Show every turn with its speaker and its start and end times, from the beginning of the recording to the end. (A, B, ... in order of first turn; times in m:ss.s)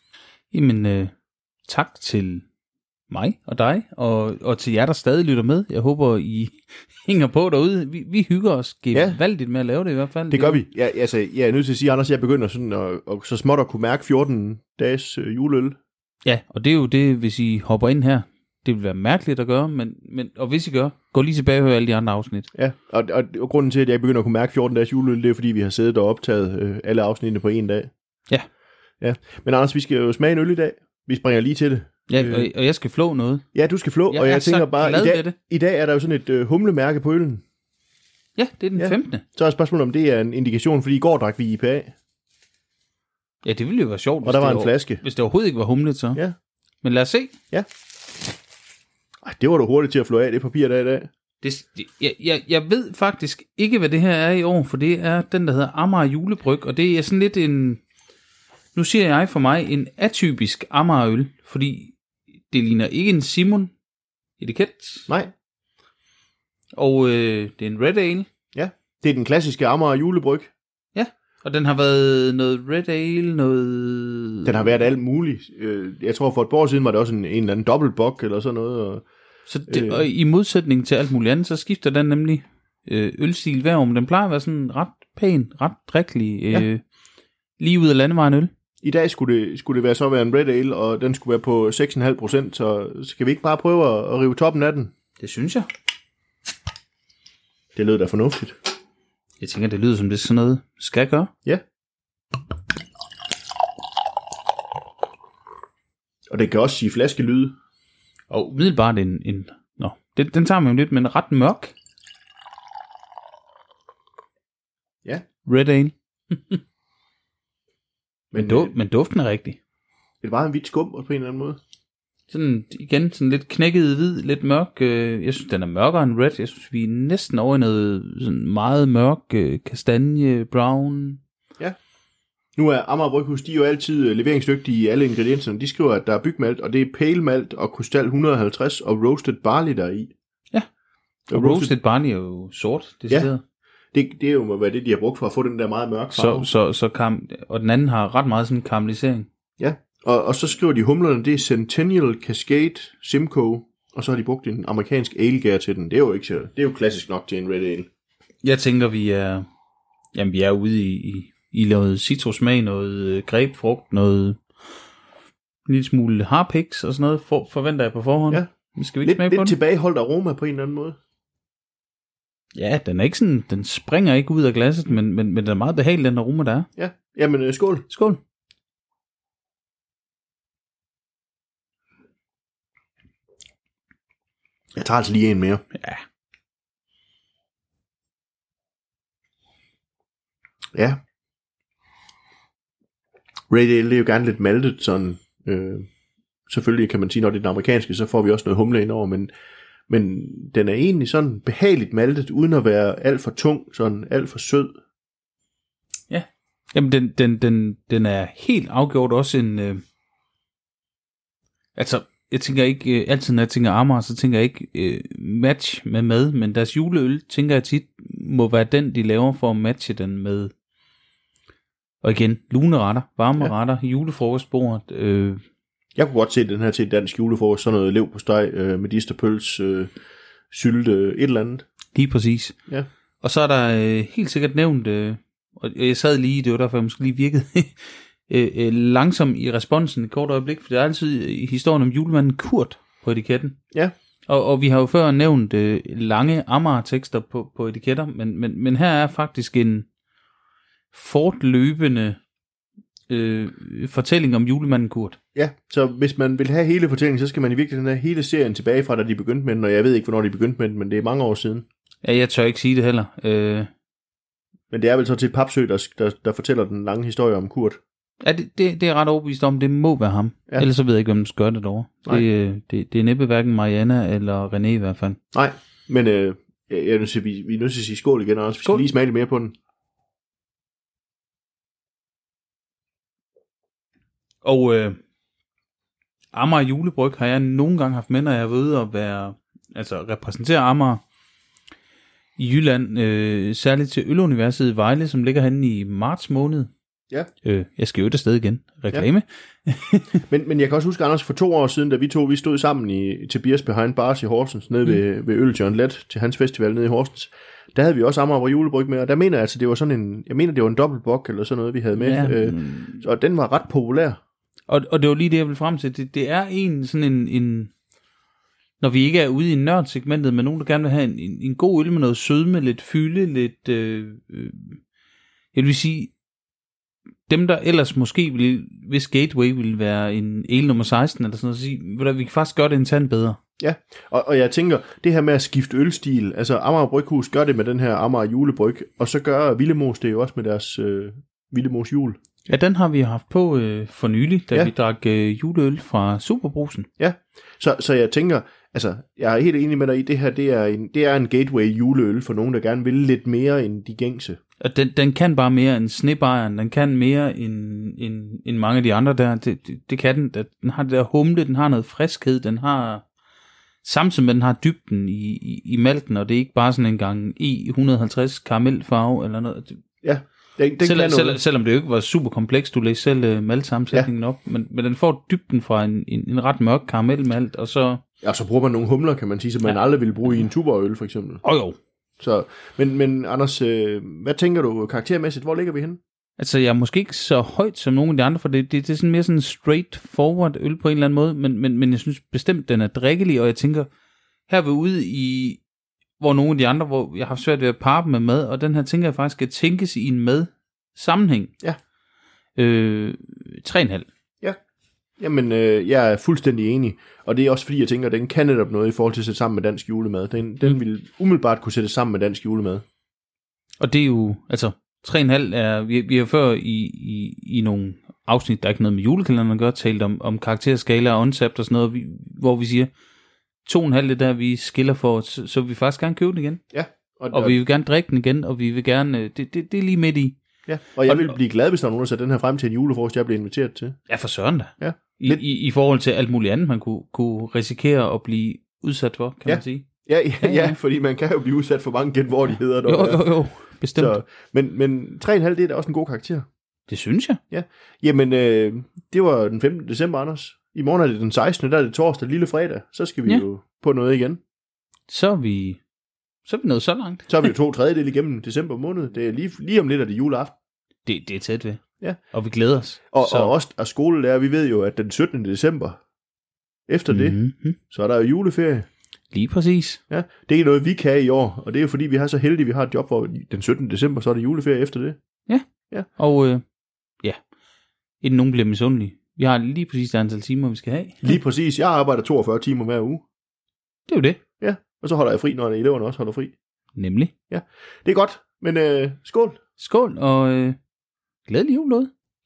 0:00.5-0:01.1 A
0:01.7-0:02.4 A
0:03.1-0:10.6 A
0:08.9-0:09.2 B
0:10.3-0:15.8 B
0:16.2-0:22.5 A
0:22.5-0:27.9 B
0:29.0-0:32.5 B
0:32.1-0:33.4 A
0:33.5-0:37.4 B
0:34.1-0:35.3 A
0:38.4-0:39.2 A
0:38.8-0:41.9 B
0:43.4-0:46.2 A
0:44.2-0:45.0 B
0:46.8-0:47.3 A
0:49.2-0:51.1 B
0:51.4-0:57.8 A
0:58.7-1:01.9 A
1:02.5-1:03.7 A
1:04.4-1:05.1 A
1:06.7-1:08.3 A
1:08.5-1:10.5 B
1:10.9-1:14.7 A
1:14.4-1:19.0 B
1:19.5-1:26.8 A
1:19.7-1:20.0 B
1:27.6-1:28.5 A
1:28.8-1:34.9 B
1:35.2-1:35.7 A
1:37.7-1:38.5 B
1:39.4-1:41.3 A
1:46.3-1:47.5 B
1:48.3-1:51.7 A
1:55.4-1:56.6 A
1:58.3-1:58.7 B
1:58.4-1:59.6 A
2:00.2-2:01.6 B
2:02.3-2:11.2 A
2:12.6-2:20.1 B
2:21.3-2:21.7 B
2:21.3-2:23.4 A
2:23.9-2:26.5 B
2:26.1-2:29.3 A
2:29.6-2:37.9 B
2:38.4-2:39.4 A
2:40.1-2:44.4 A
2:45.6-2:49.6 A
2:49.0-2:51.0 B
2:52.5-2:56.7 A
2:56.8-2:57.8 B
2:57.9-2:58.2 A
3:04.8-3:05.6 B
3:05.7-3:06.0 A
3:13.5-3:15.8 B
3:16.5-3:19.3 B
3:19.9-3:24.7 B
3:26.1-3:29.8 A
3:31.8-3:40.5 A
3:42.0-3:45.4 A
3:46.0-3:49.9 B
3:50.5-3:51.6 B
3:51.9-3:52.6 A
3:53.2-4:03.6 A
4:04.3-4:09.9 A
4:10.9-4:12.2 A
4:13.1-4:15.2 A
4:15.3-4:21.6 B
4:22.0-4:23.7 A
4:24.7-4:27.8 B
4:28.2-4:35.2 A
4:35.3-4:39.5 B
4:44.4-4:45.0 A
4:46.3-4:51.0 A
4:52.4-4:56.7 A
4:57.4-5:00.2 A
5:00.3-5:14.2 B
5:12.0-5:13.0 A
5:14.7-5:17.7 A
5:18.8-5:24.8 A
5:25.5-5:26.1 A
5:27.3-5:33.4 A
5:33.6-5:42.2 B
5:42.5-5:46.9 A
5:47.0-5:54.4 B
5:54.6-6:03.0 A
6:03.8-6:09.8 A
6:10.0-6:11.4 B
6:10.8-6:18.0 A
6:18.2-6:21.4 B
6:19.6-6:20.5 A
6:21.4-6:21.8 A
6:22.2-6:26.0 B
6:26.4-6:33.9 A
6:34.5-6:35.6 A
6:36.2-6:41.5 A
6:42.6-6:44.1 A
6:45.2-6:52.8 B
6:53.8-7:02.9 A
7:03.6-7:06.6 A
7:06.7-7:07.6 B
7:07.3-7:10.4 A
7:10.7-7:14.0 B
7:11.0-7:11.4 A
7:14.1-7:19.9 A
7:14.8-7:15.4 B
7:19.4-7:23.2 B
7:20.4-7:20.8 A
7:22.8-7:24.2 A
7:24.0-7:26.4 B
7:26.9-7:27.4 A
7:27.5-7:34.4 B
7:35.1-7:35.8 A
7:36.4-7:37.5 A
7:37.3-7:40.5 B
7:41.0-7:43.5 A
7:43.1-7:46.0 B
7:46.9-7:47.4 B
7:47.1-7:47.8 A
7:47.9-7:48.9 B
7:49.3-7:50.0 A
7:50.1-7:55.2 B
7:55.5-7:56.6 A
7:58.2-8:01.3 A
8:01.2-8:03.2 B
8:04.1-8:04.4 A
8:04.6-8:06.5 B
8:07.0-8:07.3 A
8:07.5-8:09.6 B
8:09.8-8:10.8 A
8:11.4-8:12.1 A